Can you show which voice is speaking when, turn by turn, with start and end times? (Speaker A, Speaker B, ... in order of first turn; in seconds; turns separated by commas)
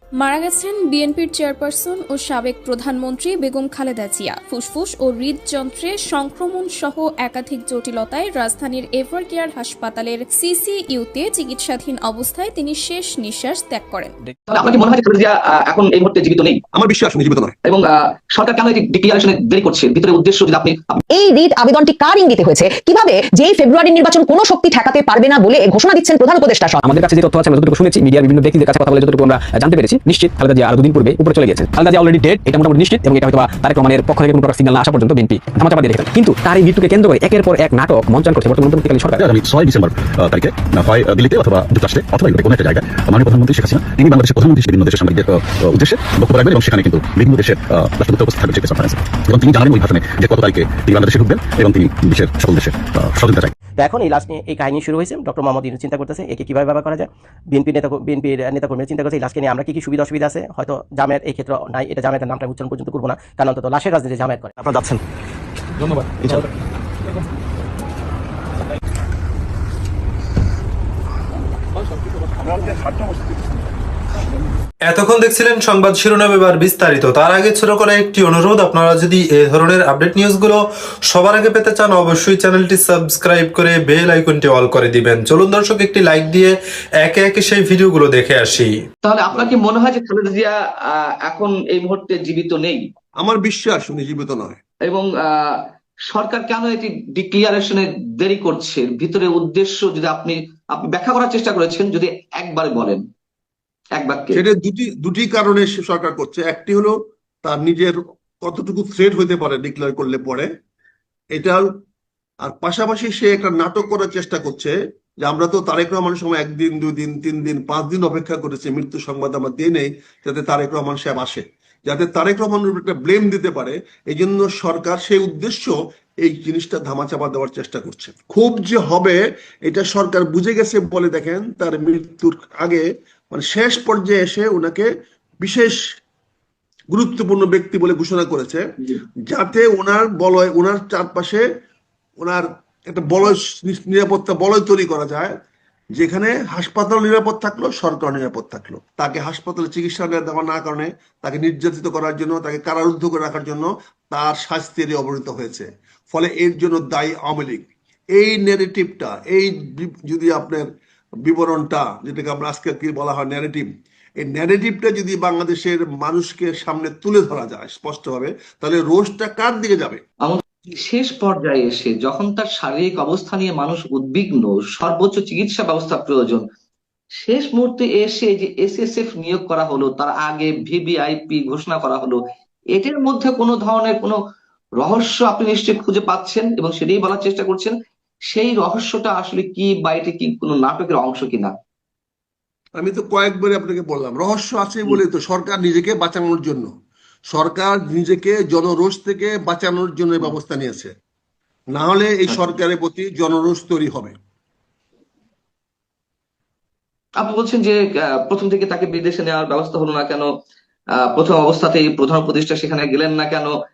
Speaker A: 0.2-14.1, Speaker B: 14.5-16.6, Speaker C: 16.7-17.5, Speaker B: 17.6-21.0, Speaker D: 21.1-26.8, Speaker E: 26.8-39.2, Speaker F: 39.1-53.5, Speaker G: 53.8-64.5, Speaker H: 74.9-80.6, Speaker H: 81.1-86.5, Speaker H: 87.0-88.7, Speaker B: 89.0-92.8, Speaker C: 93.2-94.6, Speaker B: 94.8-95.6, Speaker B: 96.1-103.0, Speaker B: 104.0-104.4, Speaker C: 104.3-110.5, Speaker C: 111.3-111.6, Speaker C: 112.4-134.9, Speaker C: 135.4-135.8, Speaker C: 136.9-138.6, Speaker C: 139.3-141.4, Speaker C: 142.2-145.3, Speaker C: 145.9-160.7, Speaker C: 161.2-163.7, Speaker C: 164.2-170.0, Speaker B: 170.2-176.4, Speaker B: 177.2-182.2, Speaker B: 182.7-184.2, Speaker B: 184.8-187.7, Speaker B: 188.3-191.5, Speaker C: 192.8-196.7, Speaker C: 197.3-200.9, Speaker C: 201.7-204.1, Speaker B: 202.3-202.6, Speaker B: 207.2-210.3, Speaker B: 211.1-213.5